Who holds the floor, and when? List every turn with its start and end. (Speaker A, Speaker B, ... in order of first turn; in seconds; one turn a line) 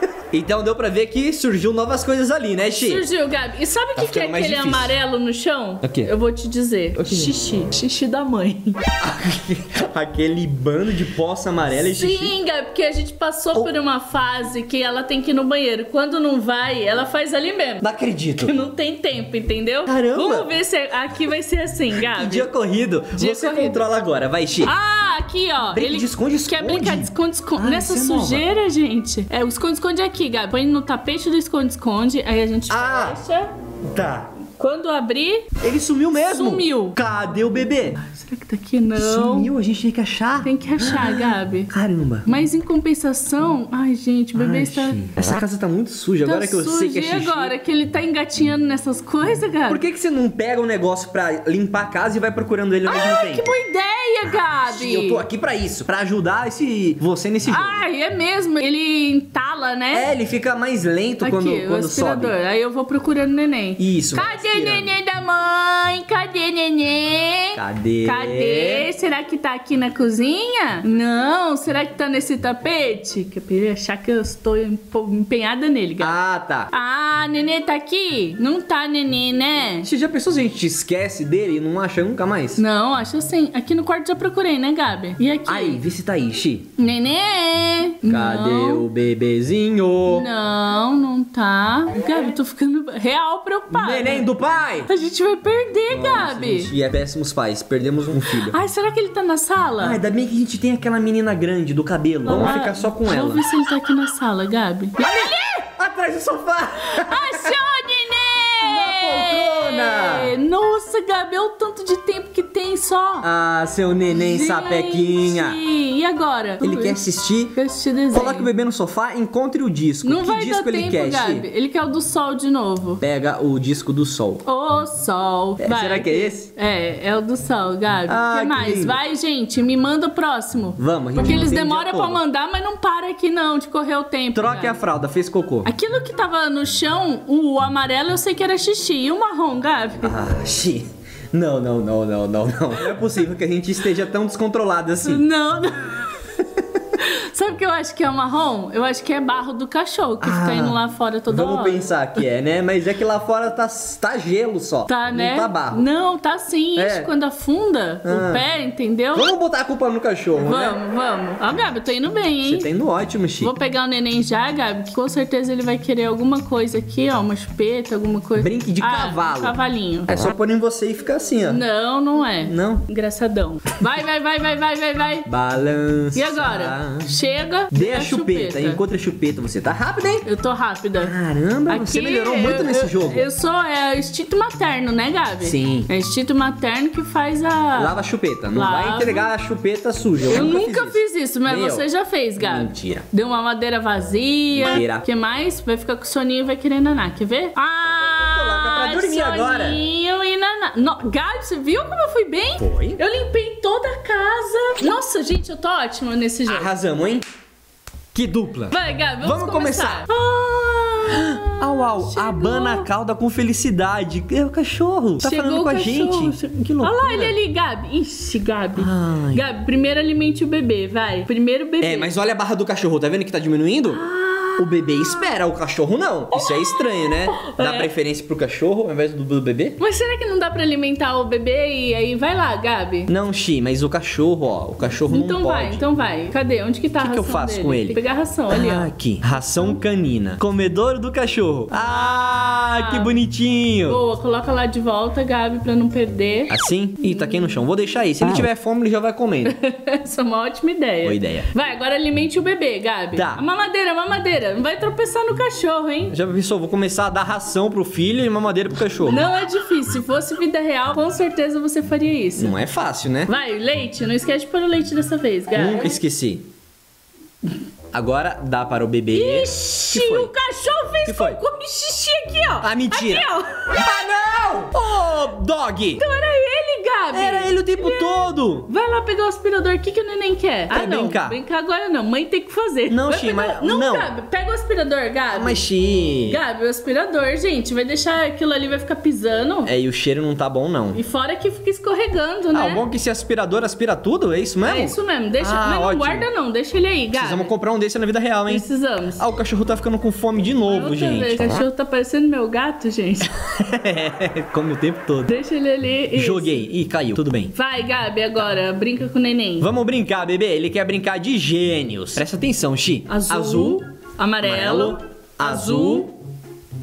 Speaker A: 0.3-3.0
Speaker B: 2.8-8.8
Speaker A: 3.9-5.0
Speaker A: 5.8-6.1
Speaker A: 7.0-7.3
Speaker A: 9.0-12.3
Speaker B: 11.7-17.9
Speaker A: 17.8-18.5
Speaker B: 18.4-22.5
Speaker A: 19.9-20.5
Speaker A: 22.0-24.7
Speaker B: 23.1-24.0
Speaker B: 24.6-33.5
Speaker A: 25.7-28.4
Speaker A: 32.7-33.2
Speaker A: 33.9-34.3
Speaker B: 34.6-35.5
Speaker A: 35.6-38.0
Speaker B: 36.2-37.0
Speaker B: 38.0-39.5
Speaker A: 39.0-42.3
Speaker B: 40.4-41.7
Speaker B: 42.2-45.0
Speaker A: 44.3-47.5
Speaker B: 46.2-49.8
Speaker A: 49.7-53.5
Speaker B: 52.9-55.2
Speaker A: 54.7-57.8
Speaker B: 57.5-60.1
Speaker A: 59.9-62.3
Speaker B: 61.2-76.2
Speaker A: 63.8-64.9
Speaker A: 67.5-68.9
Speaker A: 76.0-76.7
Speaker B: 76.7-79.9
Speaker A: 79.8-82.6
Speaker B: 82.6-85.8
Speaker A: 85.5-86.7
Speaker B: 86.8-88.9
Speaker A: 88.0-90.3
Speaker B: 90.1-94.3
Speaker A: 93.7-94.9
Speaker B: 94.8-96.7
Speaker A: 95.9-98.6
Speaker B: 98.3-100.0
Speaker A: 99.8-103.4
Speaker B: 102.2-105.6
Speaker A: 105.0-107.5
Speaker B: 106.8-113.3
Speaker A: 108.6-110.3
Speaker A: 113.2-115.6
Speaker B: 114.1-118.5
Speaker A: 116.6-117.5
Speaker A: 118.1-121.4
Speaker B: 120.0-123.0
Speaker A: 123.0-124.4
Speaker B: 124.5-134.8
Speaker A: 125.6-126.5
Speaker A: 128.1-129.0
Speaker A: 130.8-132.2
Speaker A: 134.3-135.7
Speaker B: 135.6-140.1
Speaker A: 140.0-145.2
Speaker B: 145.0-146.2
Speaker B: 147.0-151.9
Speaker A: 150.2-155.8
Speaker B: 154.9-159.3
Speaker A: 156.8-157.1
Speaker A: 158.0-158.4
Speaker A: 159.1-160.8
Speaker B: 160.4-162.7
Speaker A: 162.4-163.5
Speaker B: 163.4-170.1
Speaker A: 168.4-169.6
Speaker A: 170.1-171.6
Speaker B: 171.4-175.3
Speaker A: 172.4-172.8
Speaker A: 175.3-177.1
Speaker B: 176.1-178.8
Speaker A: 177.7-180.2
Speaker B: 180.2-181.1
Speaker A: 181.0-183.3
Speaker B: 181.7-187.9
Speaker A: 185.4-185.9
Speaker A: 187.8-191.8
Speaker B: 188.5-189.3
Speaker B: 190.3-206.7
Speaker A: 192.4-193.0
Speaker A: 194.5-195.0
Speaker A: 198.3-199.8
Speaker A: 202.6-203.0
Speaker A: 206.5-207.2
Speaker A: 208.1-210.1
Speaker B: 208.7-212.9
Speaker A: 211.1-217.3
Speaker B: 215.2-222.1
Speaker A: 218.8-219.4
Speaker A: 221.8-224.0
Speaker B: 223.9-225.3
Speaker A: 224.6-229.8
Speaker B: 226.3-227.9
Speaker B: 229.8-233.1
Speaker A: 233.1-235.8
Speaker B: 235.1-238.9
Speaker A: 237.0-238.0
Speaker A: 238.5-244.0
Speaker B: 241.7-243.1
Speaker B: 243.8-246.5
Speaker A: 246.5-249.6
Speaker B: 247.1-247.5
Speaker B: 249.4-256.1
Speaker A: 251.0-251.5
Speaker A: 253.1-253.4
Speaker A: 256.1-259.3
Speaker B: 259.0-262.5
Speaker A: 262.4-263.3
Speaker B: 263.3-266.0
Speaker A: 265.5-266.4
Speaker A: 267.9-270.3
Speaker B: 269.1-273.8
Speaker A: 271.0-271.4
Speaker A: 272.6-276.0
Speaker B: 276.0-285.6
Speaker A: 277.1-278.7
Speaker A: 280.7-281.4
Speaker A: 282.9-284.1
Speaker A: 285.3-286.4
Speaker B: 286.2-289.7
Speaker A: 289.6-291.0
Speaker B: 290.9-292.8
Speaker A: 292.5-296.2
Speaker B: 294.6-297.5
Speaker A: 297.1-298.6
Speaker B: 298.5-299.2
Speaker A: 299.2-301.4
Speaker B: 300.6-303.3
Speaker A: 303.6-305.4
Speaker B: 305.3-306.7
Speaker A: 306.1-307.5
Speaker B: 307.5-309.7
Speaker A: 309.6-313.8
Speaker B: 313.1-316.1
Speaker A: 314.4-316.1